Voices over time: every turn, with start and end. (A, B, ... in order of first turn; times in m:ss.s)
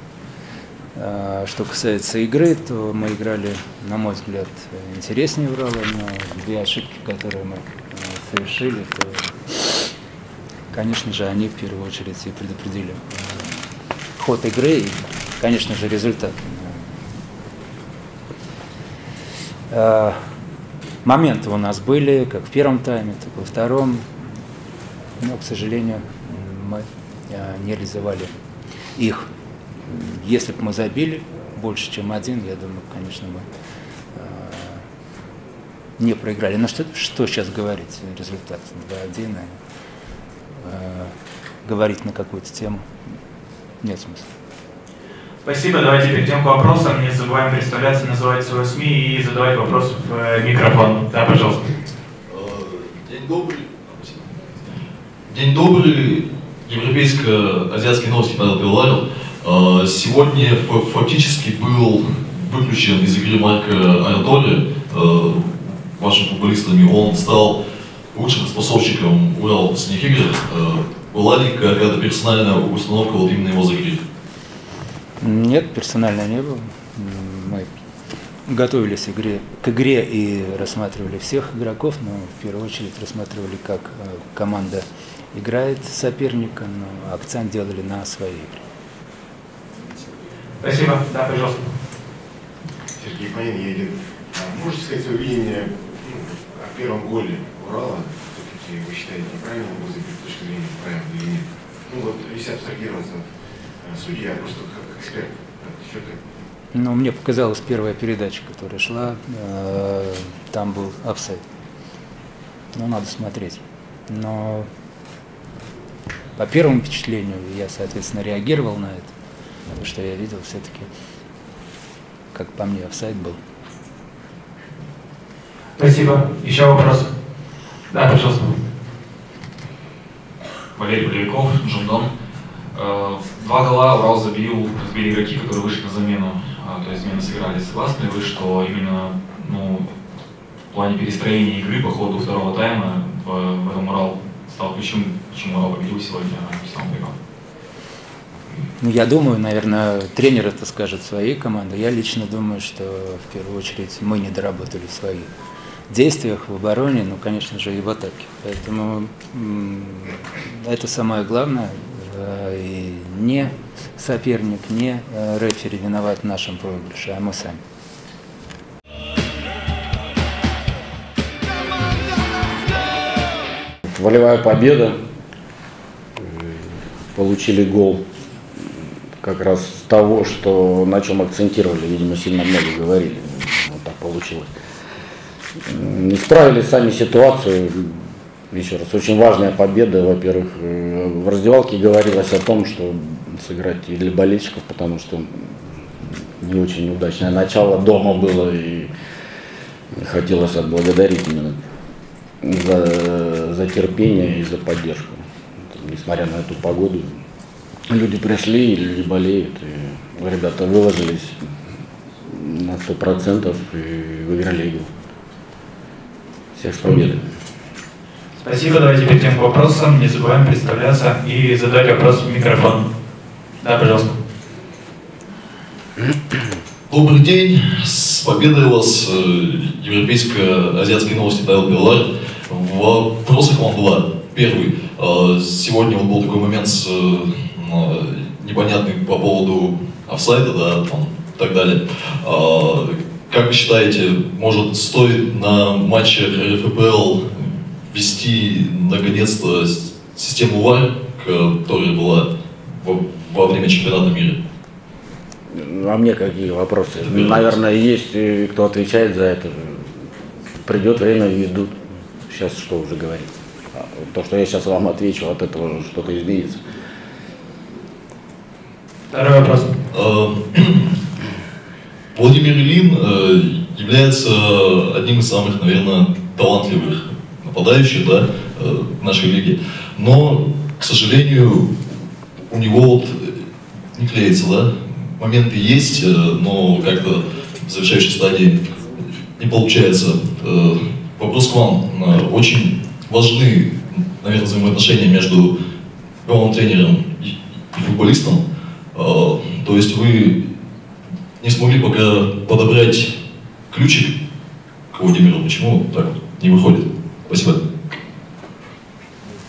0:01.0-0:09.9 A
0:10.7-0:13.5 A
0:14.2-0:16.8 A
0:19.7-0:20.2 A
0:21.0-0:24.1 A
0:25.2-0:28.4 A
0:29.0-0:29.3 A
0:29.9-0:33.5 A
0:34.1-0:34.8 A
0:36.0-0:39.6 A
0:40.6-0:41.1 A
0:41.6-0:42.9 A
0:43.8-0:44.3 A
0:45.4-0:51.7 B
0:52.3-0:54.6 C
0:55.3-1:07.6 C
1:08.1-1:14.0 C
1:15.2-1:17.7 A
1:18.5-1:28.6 A
1:30.6-1:31.7 B
1:33.0-1:43.2 D
1:43.8-1:46.2 D
1:46.7-1:51.4 A
1:52.7-1:54.7 A
1:56.4-1:59.1 A
1:59.8-2:00.9 A
2:02.3-2:03.4 A
2:05.8-2:07.1 B
2:07.9-2:08.6 B
2:10.8-2:12.1 E
2:12.7-2:19.9 E
2:20.7-2:27.2 E
2:28.8-2:35.3 A
2:35.9-2:47.6 A
2:53.8-2:55.0 F
2:56.2-2:58.0 F
2:59.2-3:04.5 F
3:05.6-3:15.6 F
3:16.4-3:18.9 F
3:19.9-3:21.6 F
3:22.4-3:27.1 F
3:27.9-3:31.4 F
3:32.3-3:34.9 F
3:36.6-3:37.2 F
3:38.4-3:42.9 B
3:43.6-3:44.1 B
3:46.9-4:14.4 C
4:15.5-4:19.9 F
4:17.0-4:17.6 C
4:20.6-4:26.6 F
4:29.1-4:29.7 B
4:29.9-4:31.0 C
4:32.2-4:42.0 C
4:42.5-4:55.5 C
4:56.2-4:58.4 C
4:58.9-5:00.5 C
5:01.4-5:03.2 C
5:03.7-5:04.2 C
5:04.9-5:07.6 C